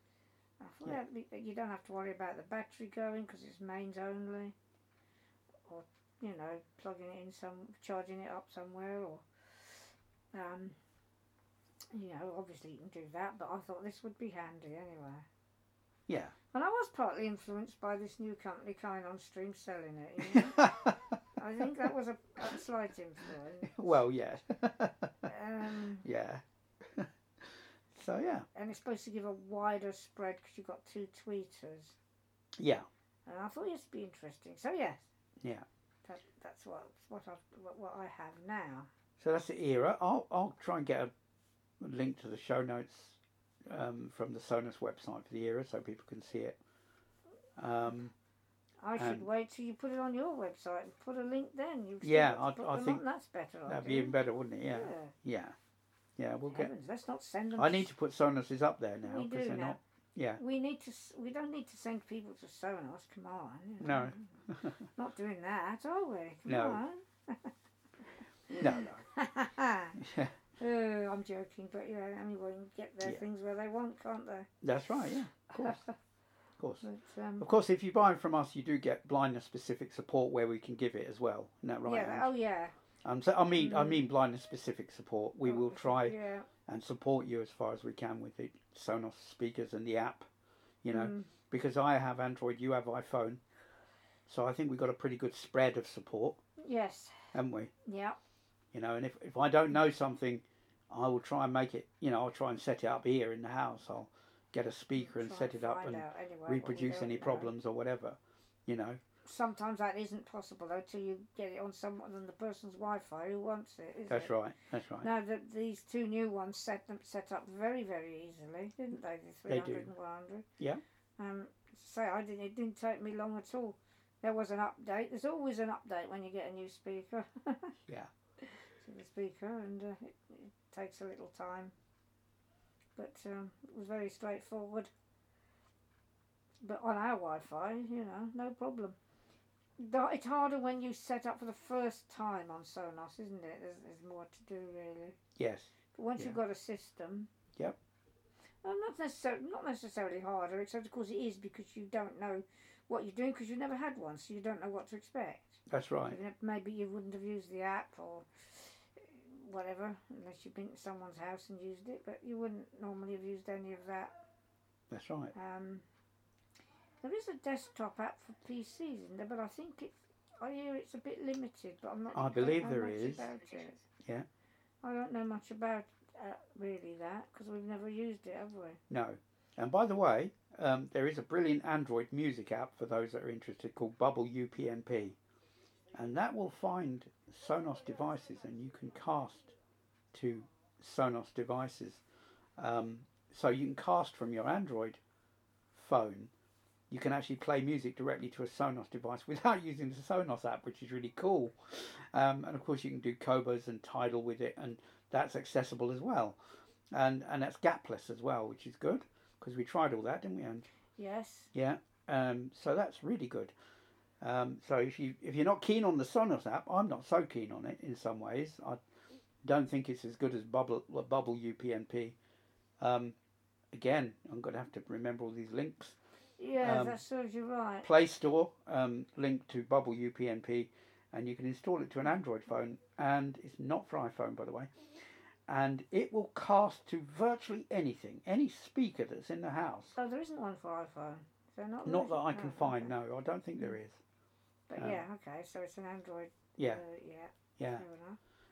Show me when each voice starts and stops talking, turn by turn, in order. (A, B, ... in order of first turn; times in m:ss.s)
0:00.6-0:04.6 A
0:05.6-0:10.8 A
0:11.9-0:15.3 A
0:16.1-0:16.4 B
0:16.5-0:24.0 A
0:20.3-0:21.2 B
0:23.7-0:25.3 B
0:25.2-0:26.0 A
0:26.0-0:28.5 B
0:28.6-0:32.0 A
0:32.6-0:32.9 B
0:33.3-0:35.1 A
0:35.4-0:35.7 B
0:36.0-0:38.9 A
0:39.2-0:41.1 B
0:41.8-0:46.6 B
0:47.6-0:48.1 B
0:48.8-0:54.2 A
0:49.0-0:49.3 B
0:52.0-0:53.0 B
0:53.7-0:55.6 B
0:54.7-0:55.1 A
0:56.2-0:56.7 B
0:56.5-0:57.9 A
0:57.6-1:00.4 B
0:59.0-0:59.8 A
1:00.4-1:04.3 A
1:03.8-1:04.8 B
1:05.0-1:10.0 A
1:06.5-1:06.8 B
1:08.6-1:09.0 B
1:10.0-1:10.4 B
1:10.6-1:14.5 A
1:14.6-1:15.8 B
1:15.6-1:15.9 A
1:16.6-1:16.8 B
1:16.8-1:17.5 A
1:17.4-1:22.3 B
1:21.9-1:22.8 A
1:23.0-1:30.3 B
1:23.6-1:24.0 A
1:25.4-1:26.5 A
1:30.8-1:33.4 B
1:30.9-1:31.3 A
1:34.3-1:36.4 B
1:36.6-1:38.2 A
1:37.3-1:37.7 B
1:38.7-1:49.0 B
1:44.9-1:47.5 A
1:49.2-1:54.3 A
1:54.1-1:55.1 B
1:55.0-2:00.5 A
1:59.5-1:59.9 B
2:01.2-2:07.8 A
2:08.4-2:11.7 A
2:13.0-2:14.9 A
2:16.6-2:19.0 A
2:19.8-2:25.2 A
2:25.4-2:26.4 B
2:25.9-2:27.3 A
2:28.6-2:44.1 A
2:35.7-2:36.2 B
2:44.9-2:45.3 B
2:45.3-2:45.8 A
2:47.0-2:53.8 A
2:52.1-2:53.3 B
2:54.8-2:58.8 A
2:58.9-3:05.2 B
3:05.9-3:09.6 B
3:10.1-3:12.0 B
3:12.6-3:15.0 B
3:15.7-3:16.3 B
3:16.9-3:26.4 B
3:26.9-3:30.7 B
3:31.0-3:31.5 A
3:31.5-3:33.5 B
3:34.2-3:38.8 B
3:39.4-3:42.2 B
3:42.8-3:43.2 B
3:43.7-3:46.0 B
3:46.4-3:47.9 A
3:46.6-3:47.0 B
3:47.8-3:54.7 B
3:55.5-4:00.0 B
4:00.0-4:03.0 A
4:01.8-4:04.0 B
4:04.7-4:08.2 A
4:04.8-4:05.0 B
4:06.6-4:06.8 B
4:07.6-4:07.8 B